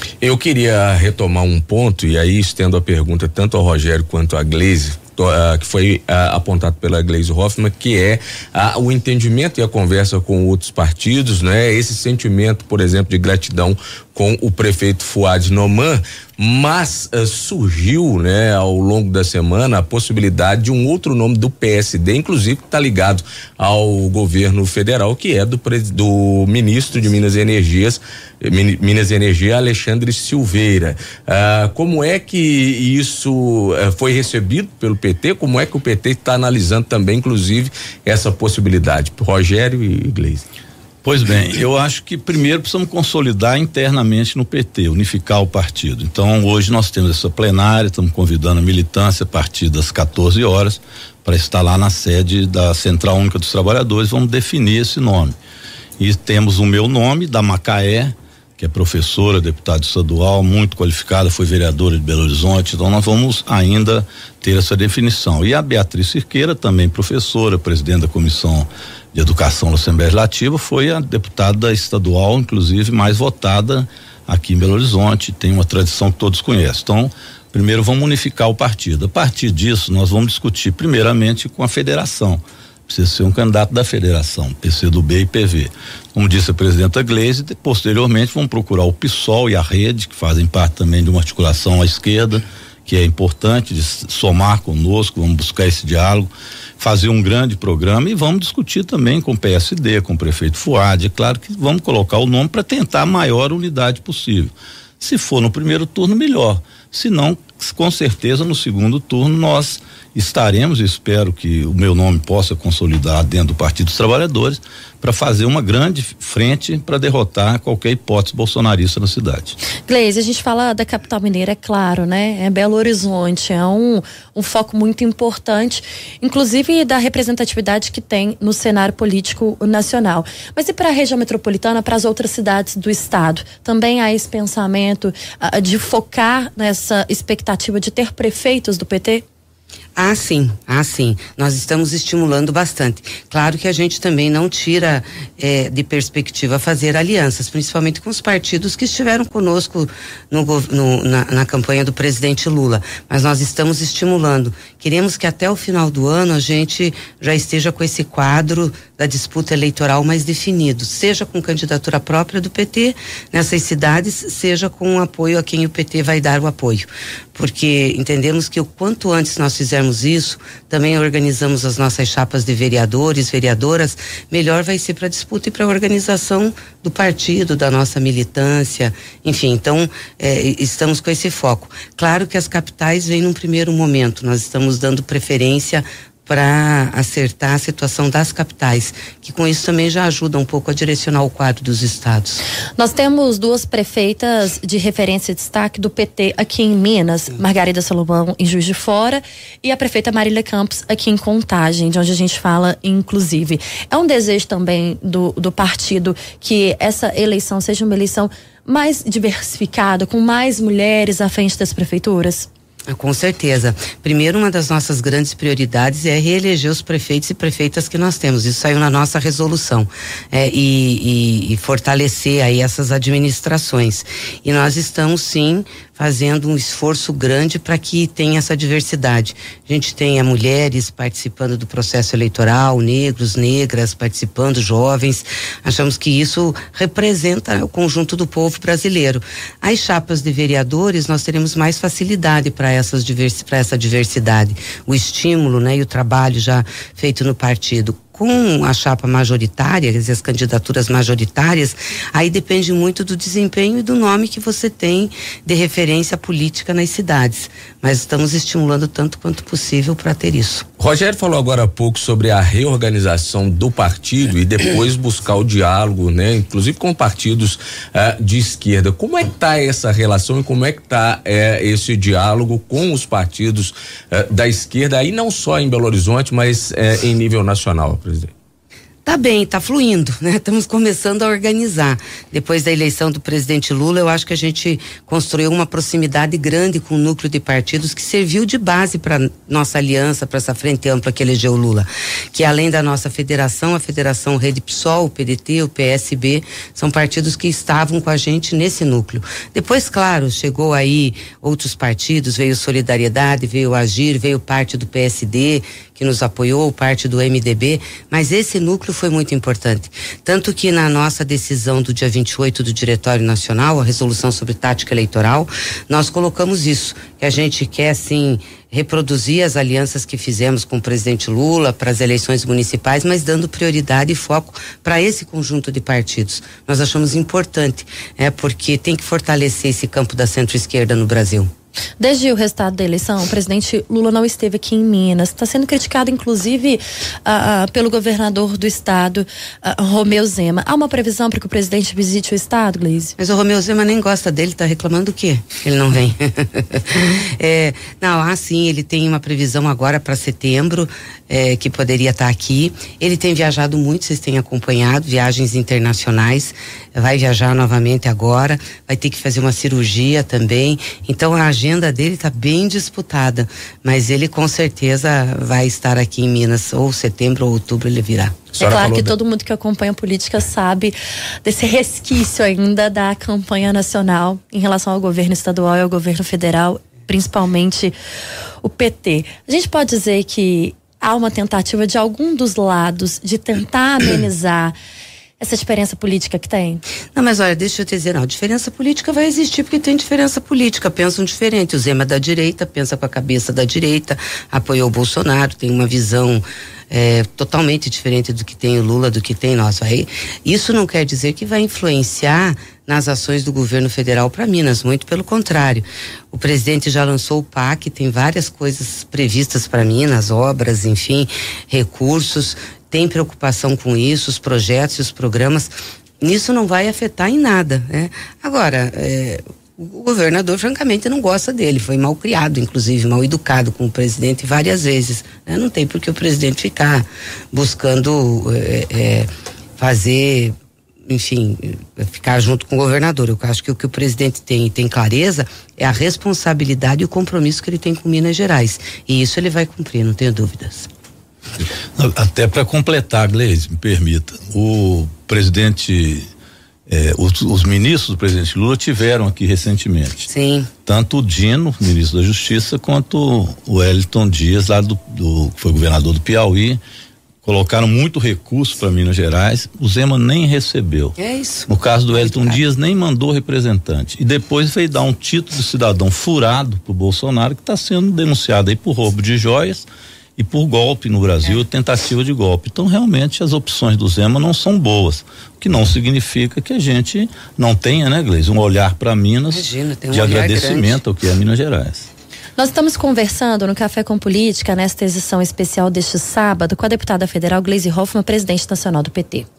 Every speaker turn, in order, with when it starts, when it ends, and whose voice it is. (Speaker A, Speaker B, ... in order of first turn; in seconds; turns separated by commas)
Speaker A: 0.2-40.4, Speaker B: 41.0-55.4, Speaker B: 56.0-119.6, Speaker C: 119.9-139.2, Speaker D: 140.0-192.4, Speaker C: 192.8-212.5, Speaker D: 212.9-260.7, Speaker A: 260.8-278.3, Speaker D: 279.1-331.5, Speaker C: 332.0-343.2, Speaker D: 343.2-368.4, Speaker A: 368.6-369.1, Speaker C: 368.6-377.9, Speaker C: 378.6-384.7, Speaker C: 385.4-386.8, Speaker D: 387.1-430.5, Speaker D: 431.1-440.9, Speaker B: 442.0-446.3, Speaker B: 446.9-450.3, Speaker D: 450.3-450.7, Speaker B: 450.9-456.8, Speaker B: 457.4-461.2, Speaker D: 461.2-462.6, Speaker B: 461.7-482.1, Speaker D: 479.5-481.0, Speaker C: 482.6-489.5